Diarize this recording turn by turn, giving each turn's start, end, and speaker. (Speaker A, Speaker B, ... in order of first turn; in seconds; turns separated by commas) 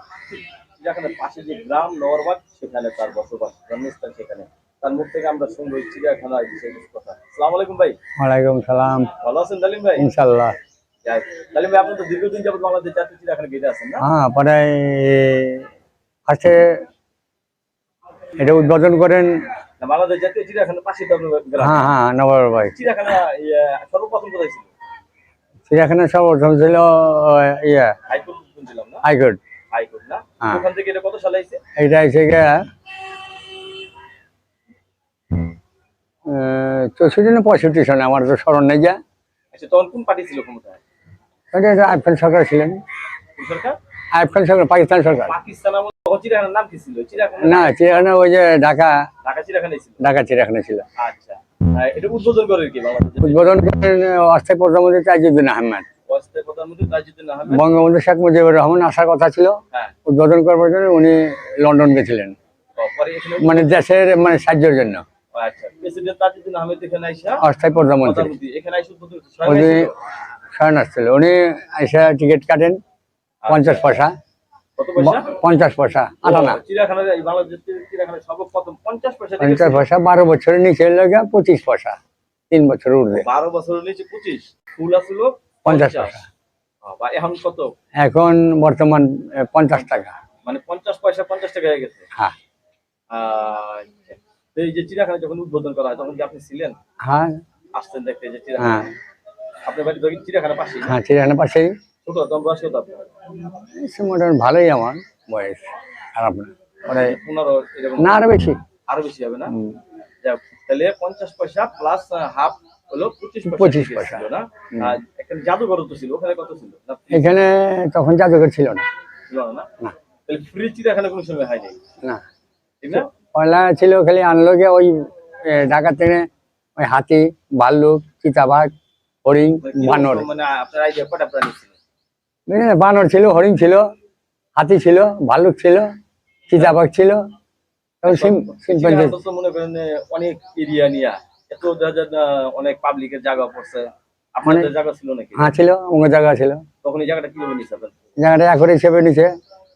Speaker A: 0.3-8.0, Speaker B: 8.2-9.1, Speaker A: 9.2-10.1, Speaker B: 10.0-10.6, Speaker A: 11.0-14.0, Speaker B: 14.0-15.7, Speaker B: 16.3-16.8, Speaker B: 18.4-19.4, Speaker A: 19.8-21.9, Speaker B: 21.6-22.7, Speaker A: 22.7-24.7, Speaker B: 25.7-27.9, Speaker A: 28.1-29.0, Speaker B: 29.0-29.4, Speaker A: 29.7-31.6, Speaker B: 31.8-32.6, Speaker B: 36.2-39.0, Speaker A: 39.5-40.8, Speaker B: 41.5-42.8, Speaker A: 43.4-43.8, Speaker B: 44.1-45.3, Speaker A: 45.2-47.9, Speaker B: 47.4-49.0, Speaker A: 49.2-50.0, Speaker B: 50.0-50.8, Speaker A: 51.0-53.6, Speaker B: 53.2-55.8, Speaker A: 56.1-57.6, Speaker B: 57.5-62.4, Speaker A: 62.8-63.8, Speaker B: 63.4-65.0, Speaker A: 65.3-67.4, Speaker B: 67.4-68.3, Speaker A: 68.0-70.0, Speaker B: 69.4-69.9, Speaker B: 70.5-72.8, Speaker A: 73.4-74.0, Speaker B: 73.5-74.1, Speaker A: 74.8-75.3, Speaker B: 75.0-76.6, Speaker A: 76.2-79.9, Speaker B: 79.4-82.0, Speaker B: 82.5-83.3, Speaker A: 83.1-86.2, Speaker B: 85.7-86.2, Speaker A: 86.8-87.7, Speaker B: 88.0-90.1, Speaker A: 90.5-92.0, Speaker A: 93.1-96.8, Speaker B: 97.0-97.4, Speaker A: 97.7-98.9, Speaker B: 98.6-98.9, Speaker A: 99.7-101.0, Speaker B: 100.8-101.7, Speaker A: 102.0-103.1, Speaker B: 103.5-107.2, Speaker A: 106.8-108.2, Speaker B: 108.0-108.6, Speaker A: 108.9-109.5, Speaker B: 109.5-109.8, Speaker A: 110.2-117.5, Speaker B: 113.4-114.9, Speaker B: 117.1-118.9, Speaker A: 119.3-119.7, Speaker A: 120.3-121.8, Speaker A: 122.8-123.1, Speaker B: 122.9-128.7, Speaker B: 129.2-130.3, Speaker A: 129.6-131.8, Speaker B: 132.5-133.8, Speaker B: 134.6-135.9, Speaker B: 136.5-137.2, Speaker B: 138.0-139.2, Speaker A: 138.0-145.5, Speaker B: 145.4-146.6, Speaker A: 146.8-147.9, Speaker B: 148.2-149.3